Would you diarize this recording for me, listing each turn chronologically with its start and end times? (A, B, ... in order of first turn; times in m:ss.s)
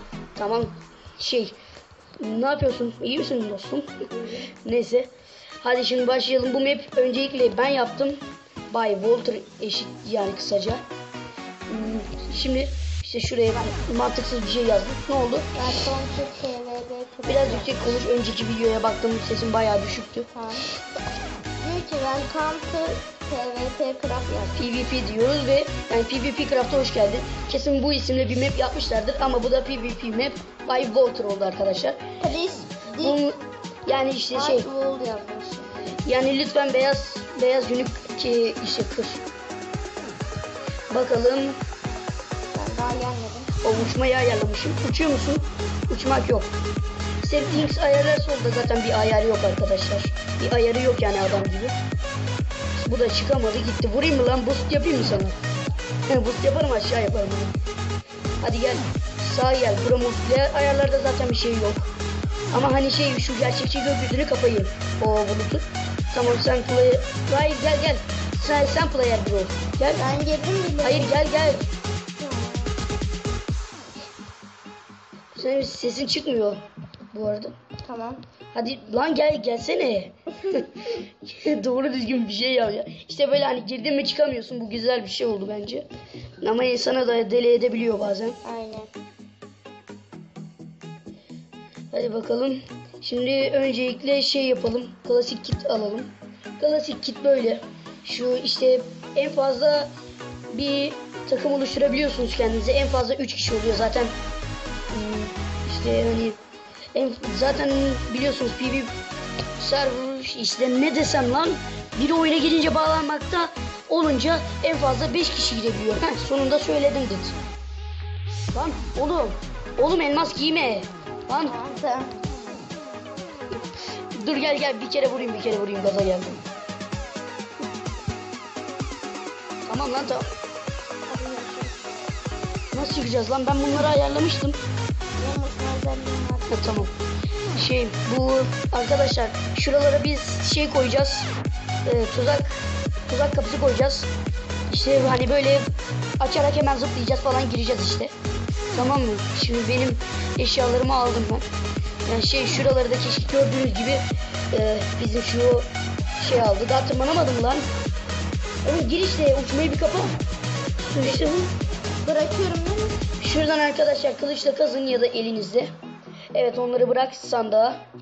0:00.4-0:01.6 A
0:02.2-0:04.0 A
0:04.6-0:05.1 A
0:05.6-0:08.2 A
0:08.7-0:10.8 A
0:11.7-0:15.5 A
0:15.6-0:18.0 B
0:17.3-0:20.3 A
0:20.3-0:20.7 B
0:21.6-0:24.6 B
0:24.5-0:32.0 A
0:32.2-0:33.2 B
0:33.0-0:34.7 A
0:34.3-0:36.0 B
0:36.0-0:39.2 A
0:40.9-0:41.6 A
0:42.5-0:43.5 B
0:43.6-0:46.5 A
0:47.2-0:51.8 A
0:52.8-0:55.4 A
0:56.1-0:57.6 A
0:58.4-1:01.9 A
1:02.5-1:10.1 A
1:10.0-1:11.2 B
1:10.8-1:11.7 A
1:12.2-1:12.8 B
1:15.4-1:16.6 A
1:17.1-1:17.6 A
1:17.8-1:18.2 B
1:18.5-1:25.9 A
1:26.4-1:28.4 A
1:28.4-1:28.9 B
1:31.9-1:39.9 A
1:40.5-1:44.1 A
1:44.9-1:46.4 A
1:46.9-1:48.9 A
1:49.6-1:57.4 A
1:58.5-2:01.6 A
2:01.4-2:02.2 B
2:04.2-2:06.4 A
2:09.7-2:10.3 A
2:11.1-2:11.8 B
2:12.7-2:14.6 A
2:15.2-2:16.9 B
2:16.5-2:16.9 A
2:17.6-2:21.3 A
2:21.8-2:24.1 A
2:24.7-2:25.7 A
2:26.2-2:28.1 A
2:28.7-2:31.5 A
2:32.1-2:35.7 A
2:36.2-2:37.7 A
2:38.6-2:40.2 A
2:40.8-2:41.5 A
2:42.0-2:43.0 B
2:43.2-2:45.7 A
2:46.3-2:47.8 A